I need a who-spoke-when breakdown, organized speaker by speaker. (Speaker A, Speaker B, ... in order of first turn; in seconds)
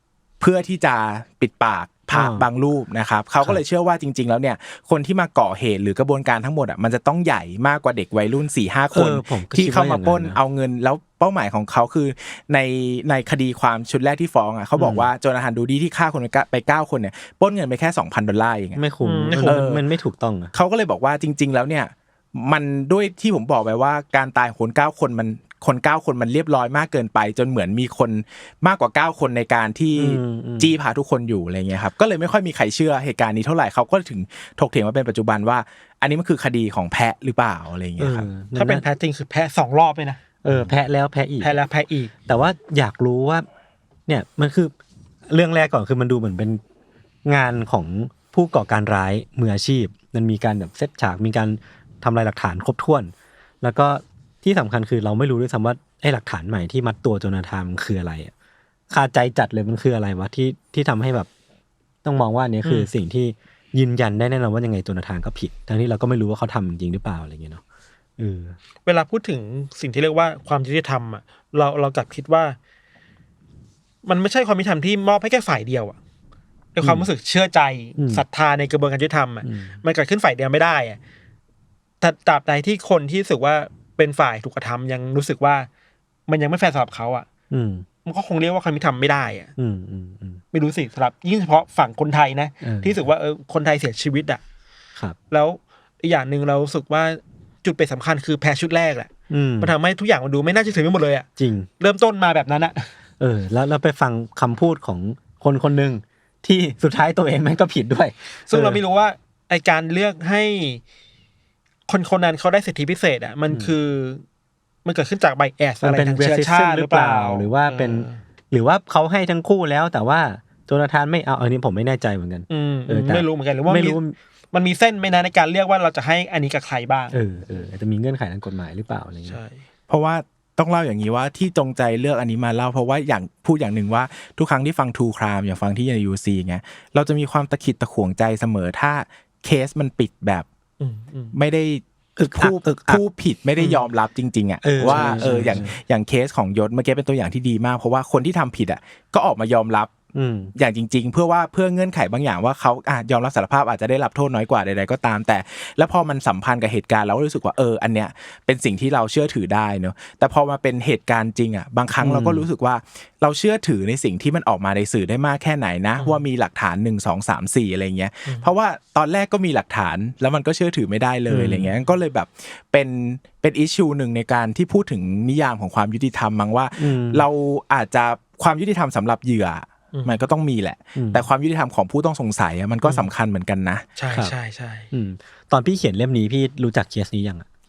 Speaker A: 0.4-18.8, 19.4-19.8, 20.5-38.3, 129.9-140.4, 141.3-149.9, 150.6-183.8
Speaker B: 2.1-2.5, 8.9-10.4, 14.8-15.1, 18.8-20.5, 30.0-30.7, 38.0-38.8, 40.4-41.5, 42.2-43.5, 44.1-44.7, 45.3-46.6, 47.2-58.3, 58.9-61.3, 62.0-67.6, 68.2-68.6, 76.8-77.1, 78.0-78.2, 79.4-79.8, 87.5-87.8, 89.6-90.4, 92.6-93.0, 99.3-99.7, 101.4-101.7, 103.2-108.8, 113.5-113.7, 115.8-124.1, 127.1-129.4, 142.2-143.0, 144.6-145.8, 150.1-150.5, 162.0-162.5, 171.3-171.7, 176.8-177.2, 180.9-181.2, 184.9-187.4
Speaker C: 19.0-19.6, 38.5-40.3, 41.4-42.1, 62.6-62.9, 68.8-72.6, 74.0-76.0, 76.7-81.0, 82.0-85.7, 86.3-87.3, 88.0-89.5, 90.5-94.4, 95.3-101.3, 101.8-102.9, 108.5-110.8, 111.9-114.2, 114.8-118.2, 122.5-124.0, 124.5-127.2, 129.3-129.6, 140.8-141.3, 144.8-145.6, 182.8-183.1, 184.0-184.9